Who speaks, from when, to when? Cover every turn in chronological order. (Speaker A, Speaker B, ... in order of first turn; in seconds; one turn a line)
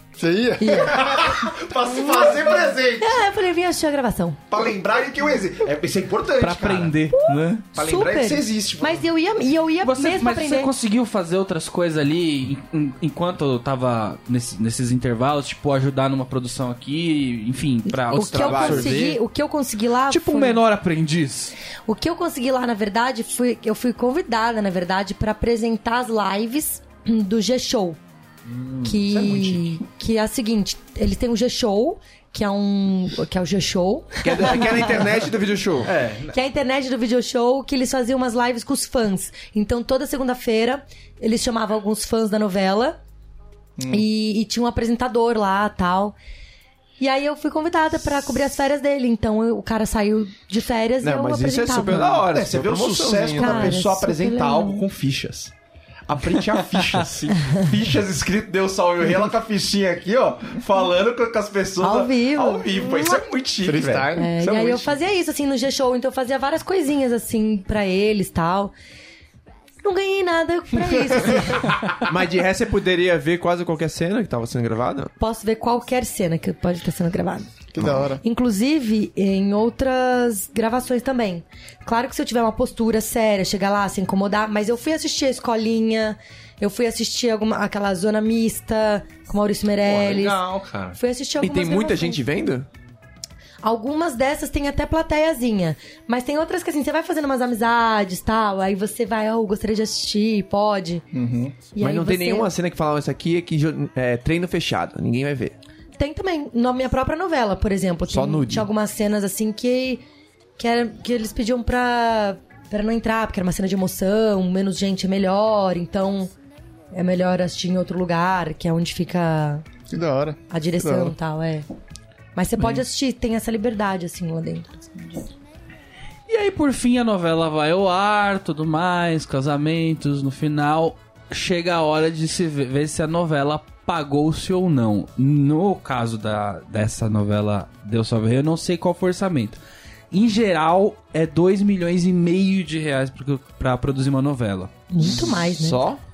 Speaker A: 0.2-1.1
Speaker B: 0.6-1.1
Speaker C: 0.9-3.2
Speaker B: 1.9-4.4
Speaker C: 4.5-7.0
Speaker D: 6.4-7.6
Speaker B: 7.1-10.7
Speaker C: 7.8-9.1
Speaker D: 9.8-19.2
Speaker B: 17.9-20.6
Speaker E: 18.1-19.0
Speaker D: 20.1-21.5
Speaker B: 21.9-28.0
Speaker C: 28.4-29.8
Speaker B: 28.8-35.1
Speaker E: 34.2-35.9
Speaker C: 35.8-36.4
Speaker B: 36.3-43.0
Speaker A: 43.8-44.0
Speaker B: 43.9-46.1
Speaker B: 47.0-52.2
Speaker E: 51.0-53.8
Speaker C: 52.3-55.5
Speaker B: 53.4-54.9
Speaker C: 56.1-64.9
Speaker B: 61.8-62.7
Speaker E: 62.8-63.2
Speaker A: 63.7-64.2
Speaker E: 63.8-64.3
Speaker B: 64.2-68.7
Speaker B: 69.8-71.7
Speaker E: 72.0-75.1
Speaker B: 75.2-77.5
Speaker A: 77.7-78.2
Speaker B: 78.2-92.2
Speaker C: 89.8-91.0
Speaker E: 91.4-92.7
Speaker B: 93.6-101.0
Speaker A: 101.1-101.7
Speaker B: 101.7-102.5
Speaker E: 101.8-105.6
Speaker B: 106.0-110.0
Speaker E: 108.1-108.7
Speaker B: 110.6-116.3
Speaker B: 116.9-119.6
Speaker A: 119.9-121.1
Speaker B: 120.5-121.7
Speaker B: 122.3-125.3
Speaker D: 126.3-139.6
Speaker D: 140.1-144.7
Speaker B: 144.9-145.8
Speaker E: 145.0-146.0